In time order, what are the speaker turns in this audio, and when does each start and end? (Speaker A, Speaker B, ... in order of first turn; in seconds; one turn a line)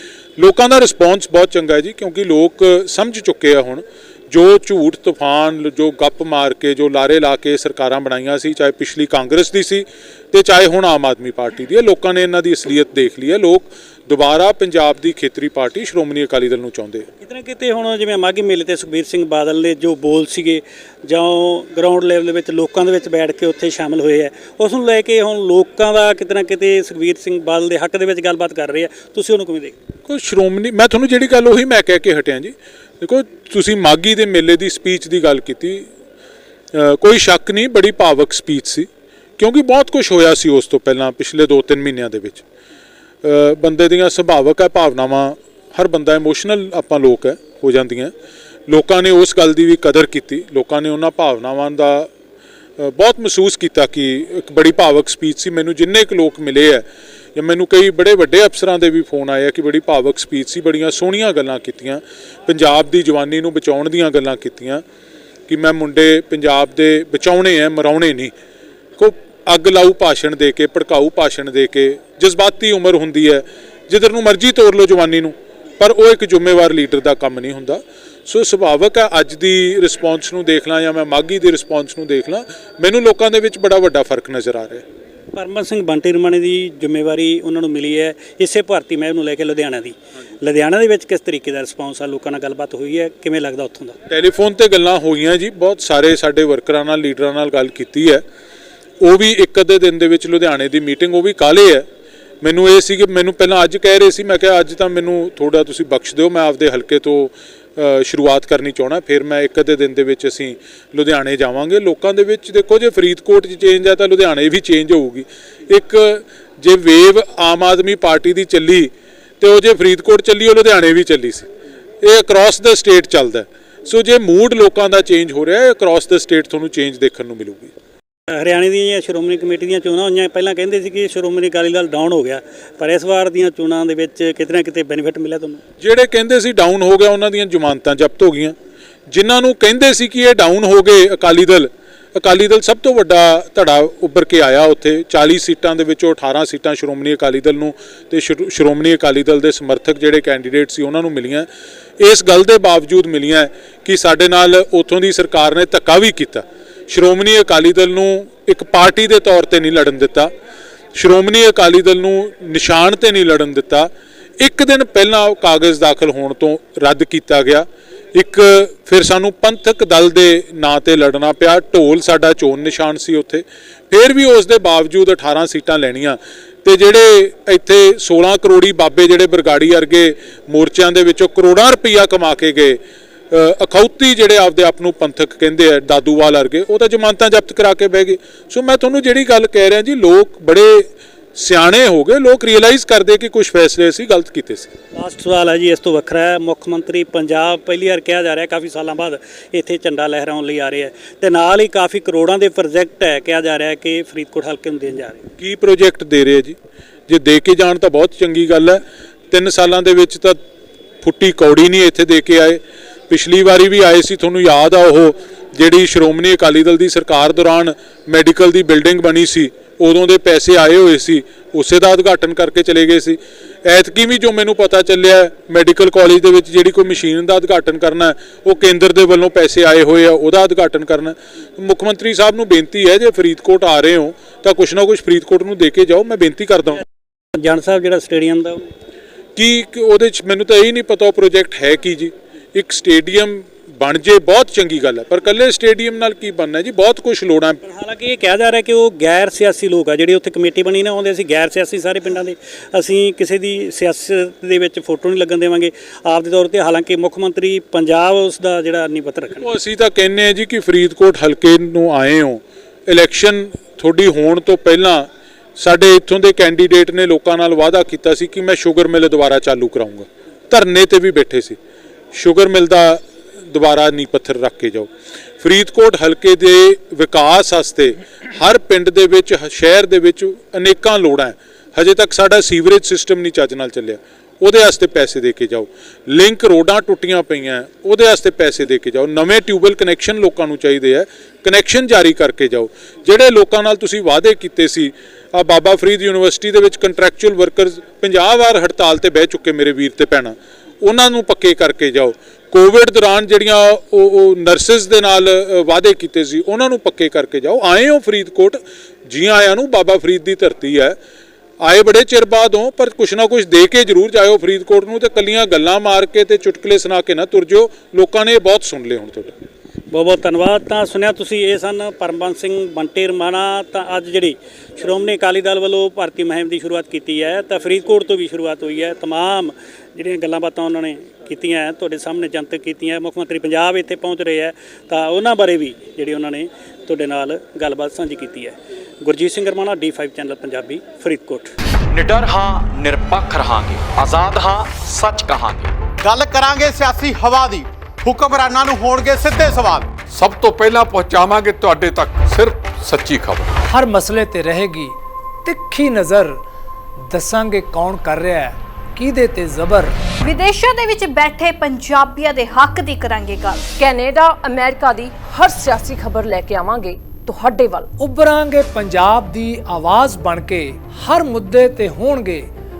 Speaker A: 0.4-17.1
Speaker B: 17.2-29.8
Speaker A: 30.1-35.9
Speaker A: 36.7-42.4
Speaker A: 43.2-48.1
Speaker A: 48.7-52.1
Speaker A: 52.8-64.8
Speaker A: 65.5-68.3
Speaker A: 69.0-84.8
Speaker B: 85.3-93.9
Speaker A: 94.1-98.2
Speaker A: 99.0-101.8
Speaker A: 102.4-121.5
Speaker A: 122.0-127.7
Speaker B: 128.4-135.6
Speaker A: 135.8-138.5
Speaker A: 139.1-151.5
Speaker A: 152.0-160.3
Speaker A: 160.9-182.8
Speaker A: 183.3-194.7
Speaker B: 194.9-205.2
Speaker A: 205.4-206.6
Speaker A: 207.1-210.4
Speaker A: 211.0-236.8
Speaker B: 237.4-238.7
Speaker A: 239.3-247.6
Speaker B: 247.6-259.4
Speaker A: 259.4-271.6
Speaker A: 272.1-274.9
Speaker A: 275.4-310.9
Speaker A: 311.6-319.3
Speaker B: 319.9-341.5
Speaker C: 341.9-345.7
Speaker D: 346.0-349.9
Speaker E: 350.1-353.6
Speaker F: 353.7-356.4
Speaker F: 357.1-359.9
Speaker G: 360.2-363.7
Speaker H: 363.8-367.9
Speaker F: 368.0-372.5